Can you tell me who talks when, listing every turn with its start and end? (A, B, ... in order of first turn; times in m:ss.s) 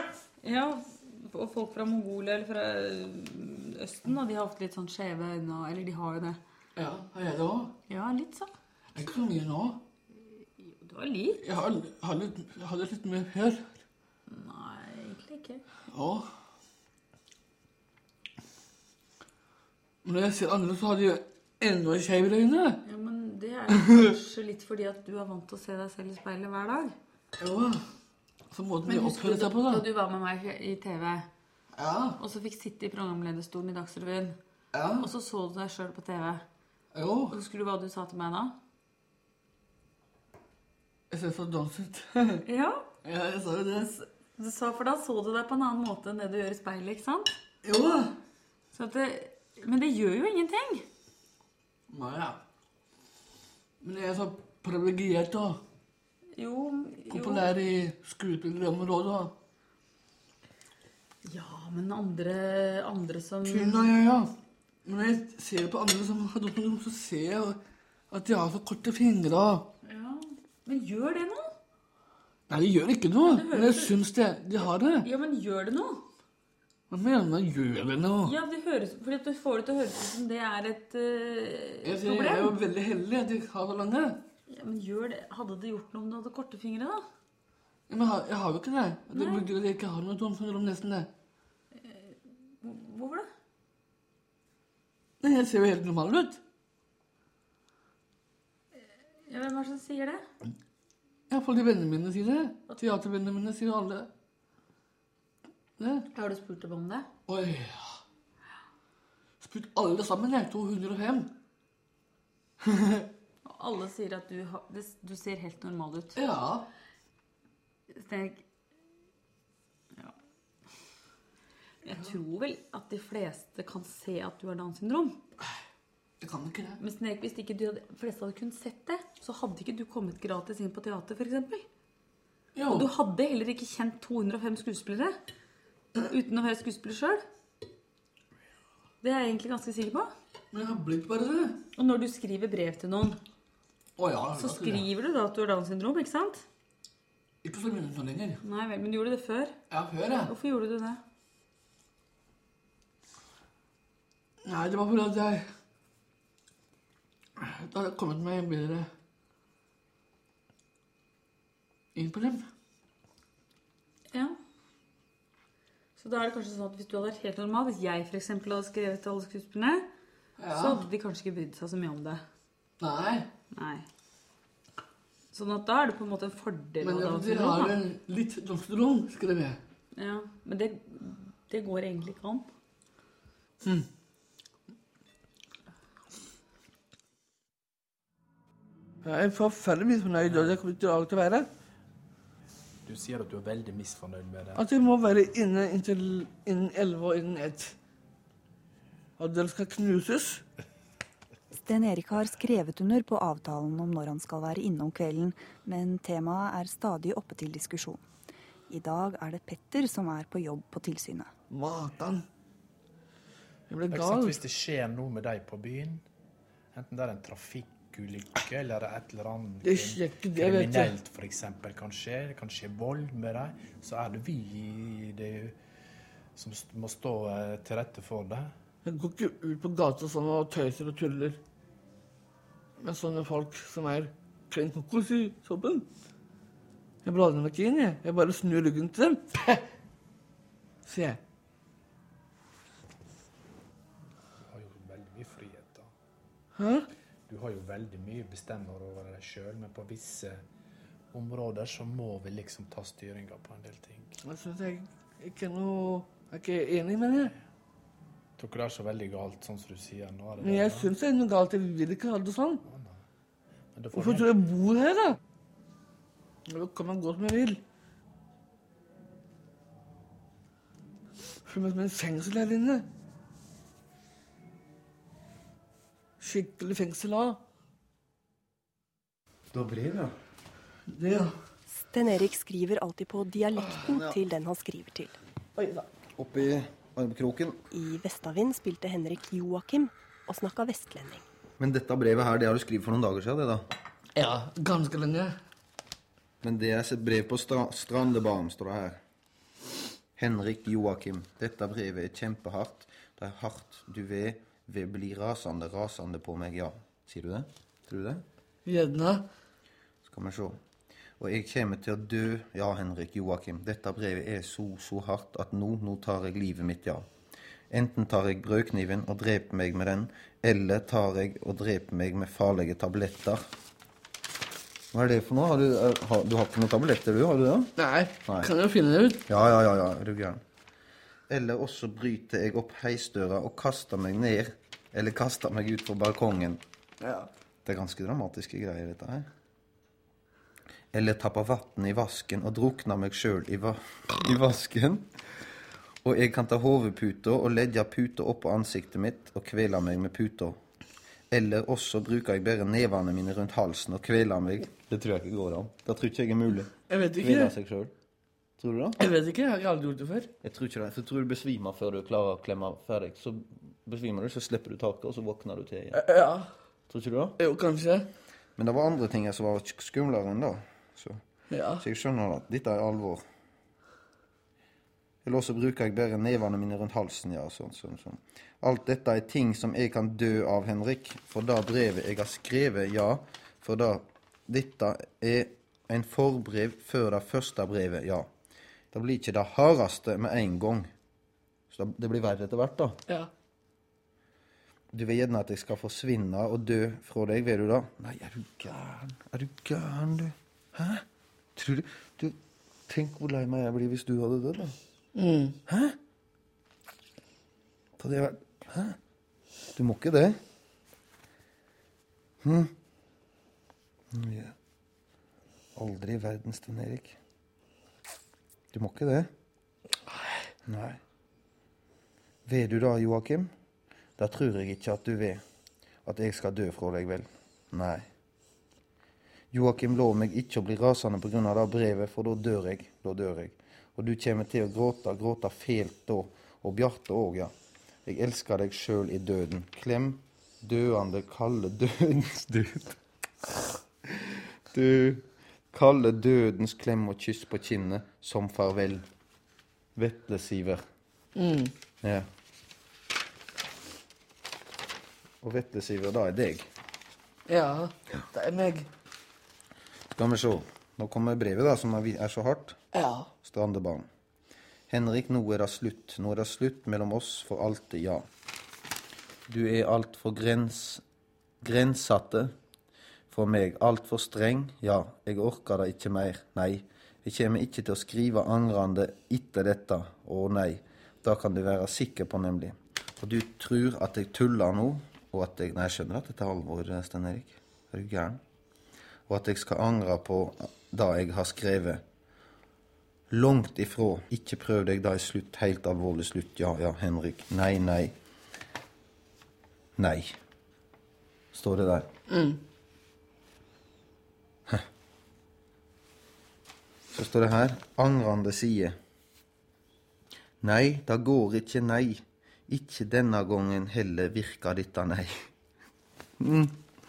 0:00.4-0:06.4 A
0:06.8-0:07.7 B
0:07.9-0:08.5 A
0:08.9-0:09.8 B
0:10.6-0:11.4 A
0:11.4-0:13.7 B
0:14.3-0:15.6 A
0:15.9-0:16.2 B
0:20.0-0:22.8 B
0:22.8-0:27.0 A
0:27.4-0:27.8 B
0:28.5-0:29.8 B
0:28.8-0:31.3 A
0:31.7-0:32.2 B
0:32.2-0:34.4 A
0:34.7-0:35.1 B
0:35.0-0:36.4 A
0:36.9-0:37.4 B
0:37.3-0:38.5 A
0:41.1-0:42.4 B
0:42.4-0:42.9 A
0:43.0-0:44.0 B
0:44.4-0:47.4 A
0:47.6-0:48.2 B
0:48.7-0:50.8 A
0:51.9-0:52.4 B
0:53.8-0:55.6 B
0:56.3-0:57.5 A
0:57.1-0:59.3 B
1:01.2-1:03.9 A
1:03.4-1:04.3 B
1:04.8-1:07.6 B
1:08.1-1:09.7 B
1:09.8-1:11.5 A
1:12.5-1:15.1 B
1:13.3-1:13.9 A
1:15.0-1:16.0 A
1:16.9-1:18.3 B
1:18.2-1:22.6 A
1:21.8-1:24.2 B
1:24.5-1:27.0 A
1:27.9-1:31.1 B
1:29.1-1:29.5 A
1:31.7-1:33.3 A
1:35.2-1:36.4 B
1:38.8-1:40.2 A
1:41.3-1:44.1 B
1:45.8-1:46.1 B
1:46.1-1:47.1 A
1:47.3-1:48.0 B
1:49.4-1:51.3 B
1:52.6-1:53.0 B
1:53.4-1:56.2 A
1:56.2-1:56.7 B
1:57.9-1:58.4 A
2:01.8-2:05.2 A
2:06.2-2:06.8 B
2:06.8-2:11.6 A
2:12.5-2:12.9 B
2:12.6-2:15.2 A
2:16.1-2:17.2 A
2:19.0-2:20.1 A
2:20.5-2:21.6 B
2:21.8-2:23.2 A
2:24.0-2:24.9 B
2:24.4-2:26.4 A
2:27.4-2:28.4 B
2:28.4-2:29.5 A
2:29.7-2:30.3 B
2:30.3-2:31.0 A
2:34.4-2:35.4 B
2:37.4-2:38.9 B
2:41.9-2:42.4 B
2:44.1-2:44.4 A
2:46.0-2:49.9 A
2:50.4-2:50.8 B
2:50.5-2:52.2 A
2:52.8-2:53.3 B
2:53.5-2:53.8 A
2:55.3-2:57.8 A
2:56.8-2:59.6 B
2:59.9-3:02.5 A
3:09.0-3:11.5 B
3:12.8-3:14.6 C
3:14.5-3:17.7 B
3:19.2-3:20.4 B
3:21.6-3:28.0 D
3:28.7-3:31.3 D
3:31.5-3:32.2 B
3:33.7-3:34.4 B
3:33.9-3:36.0 C
3:36.7-3:45.5 C
3:39.6-3:40.9 B
3:46.4-3:48.5 C
3:48.8-3:51.4 B
3:52.8-3:55.9 B
3:57.0-3:59.6 B
4:00.8-4:01.2 B
4:04.5-4:05.9 C
4:06.6-4:06.9 B
4:07.3-4:10.4 C
4:11.1-4:14.1 C
4:14.2-4:17.3 B
4:18.4-4:20.9 C
4:20.4-4:22.6 B
4:22.6-4:23.0 C
4:23.7-4:24.4 C
4:23.9-4:25.2 B
4:26.4-4:27.6 B
4:31.4-4:32.8 B
4:36.2-4:37.4 B
4:39.5-4:40.1 E
4:40.9-4:41.3 B
4:41.7-4:45.2 F
4:45.6-4:45.8 B
4:46.2-4:47.6 E
4:47.7-4:51.2 F
4:51.6-4:53.6 E
4:54.2-4:55.3 B
4:56.4-4:59.0 E
5:00.2-5:08.2 E
5:08.6-5:09.2 B
5:10.0-5:10.6 E
5:11.2-5:17.0 E
5:17.7-5:23.4 E
5:24.9-5:27.7 E
5:27.8-5:29.2 B
5:29.3-5:30.4 E
5:31.3-5:36.6 E
5:37.0-5:37.3 B
5:37.6-5:39.3 E
5:40.9-5:45.0 E
5:46.0-5:50.6 E
5:51.3-5:57.9 E
5:56.9-5:57.5 B
5:58.6-5:59.0 E
5:59.0-6:00.3 B
6:00.4-6:06.0 E
6:05.9-6:06.5 B
6:06.9-6:07.4 E
6:07.4-6:08.1 B
6:08.6-6:11.2 E
6:11.5-6:11.8 B
6:11.8-6:13.2 E
6:15.2-6:28.3 E
6:28.9-6:30.9 E
6:31.7-6:33.0 E
6:34.9-6:41.0 E
6:41.6-6:42.4 E
6:42.9-6:44.8 E
6:45.1-6:45.6 B
6:45.7-6:46.0 E
6:48.0-6:49.0 E
6:49.7-6:50.4 E
6:52.4-6:52.7 E
6:54.1-6:54.5 E
6:55.7-6:57.2 E
6:58.7-6:59.3 E
7:00.6-7:01.0 E
7:02.4-7:03.5 E
7:04.2-7:05.4 E
7:06.0-7:08.1 E
7:09.5-7:17.5 E
7:18.0-7:22.9 E
7:24.1-7:29.0 E
7:30.0-7:30.8 E
7:31.3-7:31.7 B
7:32.0-7:32.3 E
7:35.4-7:36.7 E
7:37.5-7:38.9 B
7:40.2-7:42.8 E
7:42.9-7:43.3 B
7:43.4-7:44.1 E
7:44.9-7:48.2 E
7:49.5-7:51.0 E
7:51.6-7:52.5 E
7:53.3-8:08.4 E
8:09.3-8:12.0 E
8:13.3-8:18.1 E
8:20.0-8:20.4 E
8:21.5-8:22.1 E
8:22.3-8:22.6 B
8:27.1-8:29.0 E
8:30.6-8:35.4 E
8:36.4-8:36.8 E